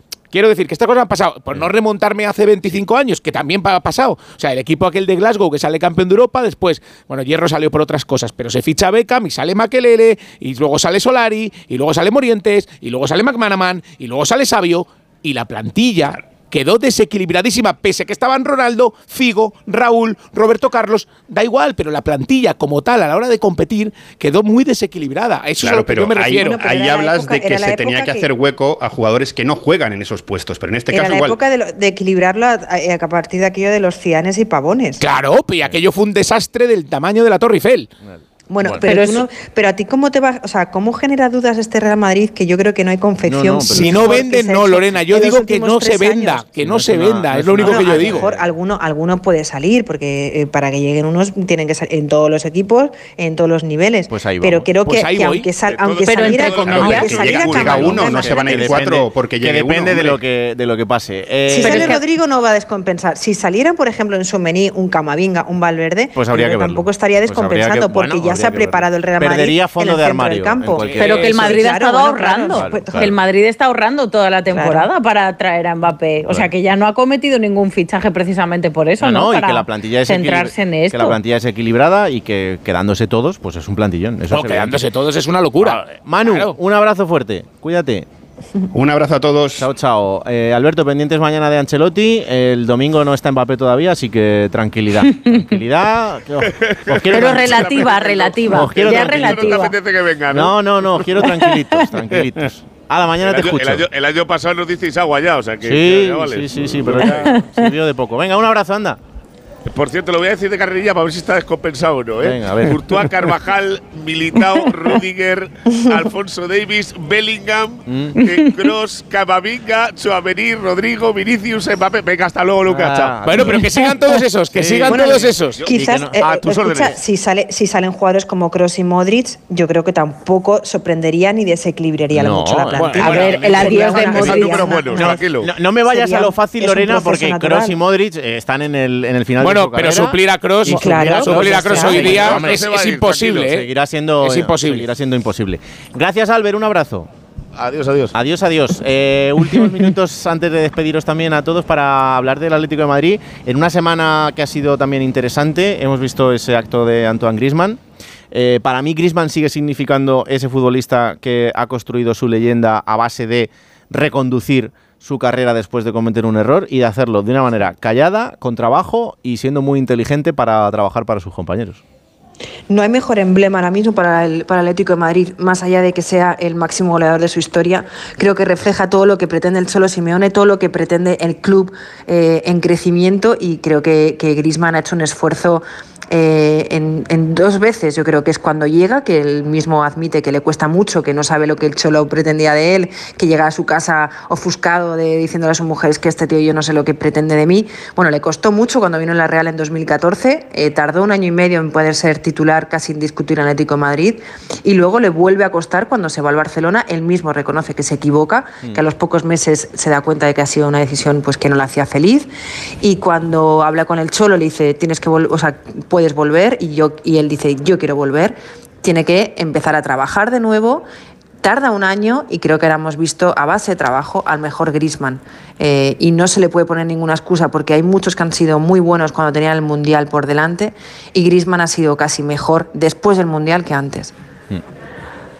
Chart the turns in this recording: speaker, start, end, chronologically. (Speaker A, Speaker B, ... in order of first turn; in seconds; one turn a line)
Speaker A: 0.3-26.6
Speaker B: 25.6-31.4
Speaker C: 26.3-28.3
Speaker C: 30.9-35.0
Speaker A: 35.0-37.9
Speaker D: 38.0-38.8
Speaker C: 38.5-46.6
Speaker E: 38.8-39.2
Speaker D: 43.2-44.2
Speaker A: 43.7-48.2
Speaker D: 46.6-48.4
Speaker C: 47.4-58.5
Speaker D: 54.1-54.7
Speaker A: 54.8-55.5
Speaker F: 55.7-57.6
Speaker E: 56.1-57.3
Speaker D: 56.6-62.0
Speaker B: 56.6-60.2
Speaker C: 61.5-73.1
Speaker E: 61.6-62.0
Speaker D: 66.1-71.7
Speaker E: 71.0-81.2
Speaker D: 72.5-73.1
Speaker C: 74.5-74.9
Speaker D: 79.0-84.8
Speaker A: 84.3-86.5
Speaker D: 85.6-88.1
Speaker B: 88.7-89.7
Speaker D: 89.6-97.8
Speaker E: 95.0-95.4
Speaker F: 96.5-100.5
Speaker E: 97.1-99.8
Speaker D: 98.5-99.7
Speaker D: 100.3-103.8
Speaker E: 101.2-101.8
Speaker F: 103.2-107.1
Speaker D: 105.6-109.0
Speaker E: 107.0-107.6
Speaker F: 109.6-123.1
Speaker D: 112.2-113.0
Speaker D: 117.9-118.2
Speaker D: 122.6-123.7
Speaker A: 123.0-125.6
Speaker D: 124.5-126.2
Speaker C: 124.9-135.2
Speaker F: 125.5-127.0
Speaker D: 132.1-142.7
Speaker A: 132.8-134.1
Speaker E: 133.0-135.0
Speaker F: 134.2-135.5
Speaker C: 135.8-137.8
Speaker A: 139.4-143.7
Speaker C: 140.6-142.2
Speaker F: 141.8-143.5
Speaker D: 143.4-147.1
Speaker A: 144.2-144.9
Speaker F: 147.5-148.2
Speaker D: 148.1-157.8
Speaker D: 158.3-171.8
Speaker C: 172.7-212.3
Speaker C: 212.8-220.9
Speaker C: 221.4-234.1